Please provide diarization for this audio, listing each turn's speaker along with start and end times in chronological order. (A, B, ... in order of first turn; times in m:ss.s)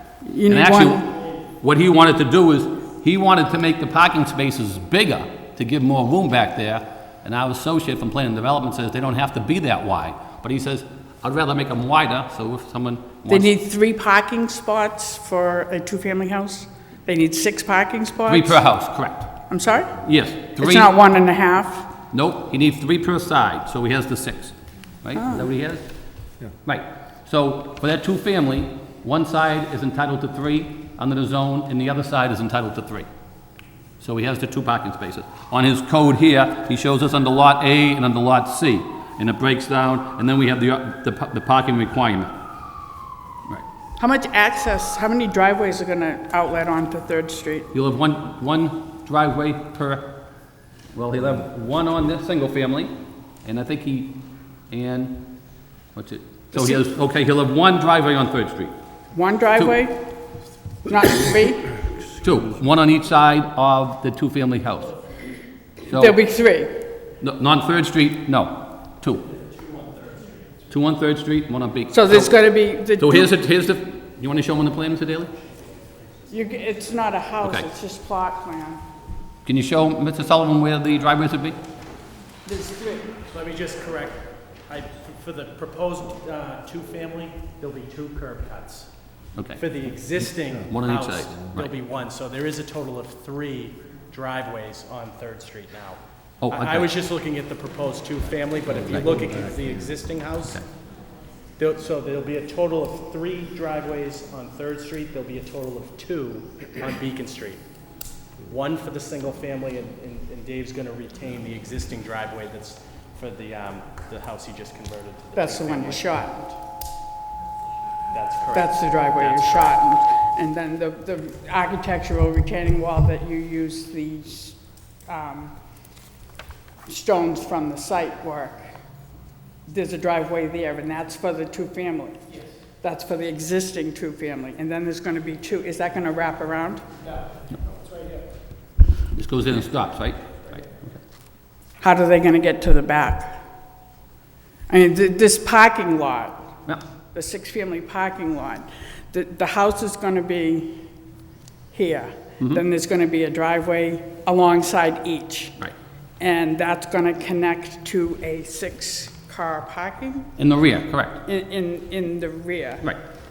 0:00.2-0:01.1 A
0:00.5-0:13.5 B
0:13.3-0:18.6 A
0:18.3-0:19.4 B
0:19.5-0:20.0 A
0:20.0-0:20.9 B
0:20.6-0:21.9 A
0:22.1-0:25.8 B
0:25.2-0:25.5 A
0:26.6-0:33.1 B
0:34.0-0:42.3 B
0:44.0-0:47.7 A
0:47.7-0:50.1 B
0:50.9-0:52.9 B
0:53.4-0:54.2 B
0:54.7-0:55.3 B
0:56.0-0:58.7 B
0:56.5-0:56.8 A
0:59.1-1:00.0 A
1:00.9-1:01.8 A
1:02.2-1:05.0 B
1:05.8-1:06.2 B
1:05.9-1:06.8 A
1:07.2-1:09.3 B
1:10.7-1:12.4 B
1:11.9-1:13.3 A
1:13.0-1:15.3 B
1:16.3-1:18.8 A
1:17.4-1:17.7 B
1:19.4-1:21.6 B
1:22.5-1:23.1 A
1:23.3-1:28.9 C
1:29.4-1:29.6 B
1:29.6-1:40.6 C
1:30.7-1:31.7 B
1:36.4-1:37.0 B
1:41.6-1:47.6 C
1:48.4-1:56.1 C
1:55.4-1:56.6 A
1:58.1-1:59.8 C
1:58.5-2:05.6 A
2:06.9-2:08.8 A
2:09.7-2:12.2 A
2:12.8-2:16.8 A
2:17.5-2:18.2 C
2:19.1-2:21.0 B
2:21.8-2:23.4 A
2:24.7-2:26.5 A
2:27.1-2:30.8 A
2:31.7-2:35.6 A
2:36.2-2:40.3 A
2:40.4-2:41.2 B
2:41.2-2:42.9 A